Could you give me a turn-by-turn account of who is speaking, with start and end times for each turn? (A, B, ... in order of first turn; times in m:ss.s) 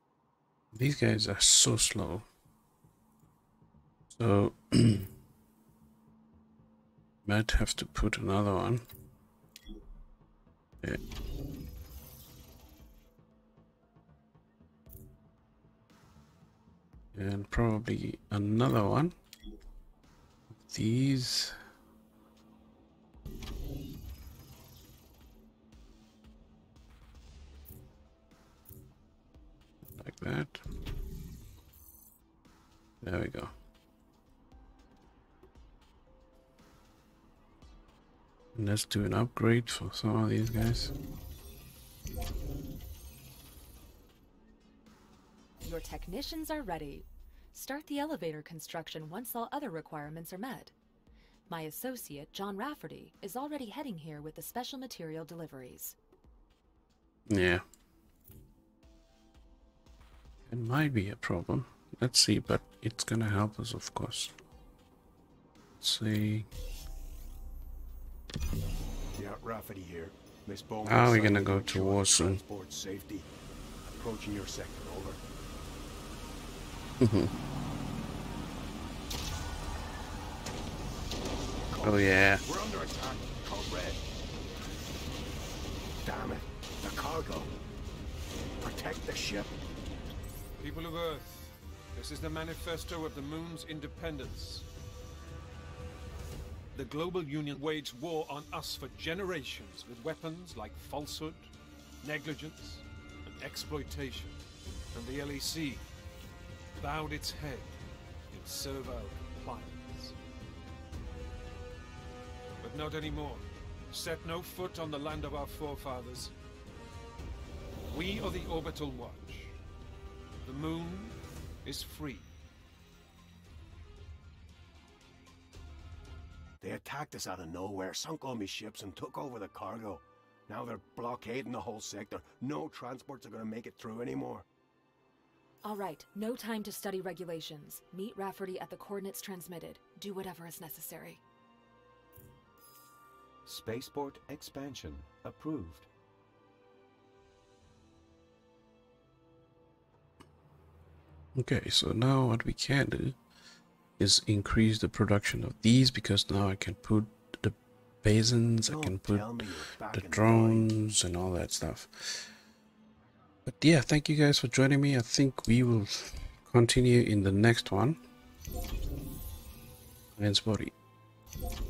0:00.7-0:02.3 A
0:04.1-0:05.1 A
0:07.2-0:08.9 A
0:17.1-0:19.2 A
0:20.6-0:21.6 A
0:29.8-0:30.6 A
0:33.0-0:33.5 A
0:38.6-0:40.9 A
0:45.6-0:50.7 B
0:51.5-0:56.0 B
0:57.3-0:57.6 A
1:00.5-1:04.3 A
1:05.8-1:06.5 A
1:09.2-1:13.3 C
1:10.8-1:12.4 A
1:13.8-1:15.2 C
1:17.0-1:17.3 A
1:21.7-1:24.0 C
1:21.8-1:22.4 A
1:26.0-1:27.5 C
1:28.6-1:29.5 C
1:30.6-1:34.7 D
1:36.7-1:44.4 D
1:44.9-1:45.8 D
1:46.8-1:47.8 D
1:48.3-1:50.2 D
1:52.6-1:56.3 D
1:57.9-1:59.6 D
2:00.4-2:02.3 D
2:06.6-2:14.5 C
2:15.6-2:21.2 B
2:23.5-2:25.9 E
2:31.4-2:33.2 A
2:34.0-2:42.4 A
2:38.7-2:40.7 C
2:43.5-2:48.0 A
2:50.2-2:50.7 A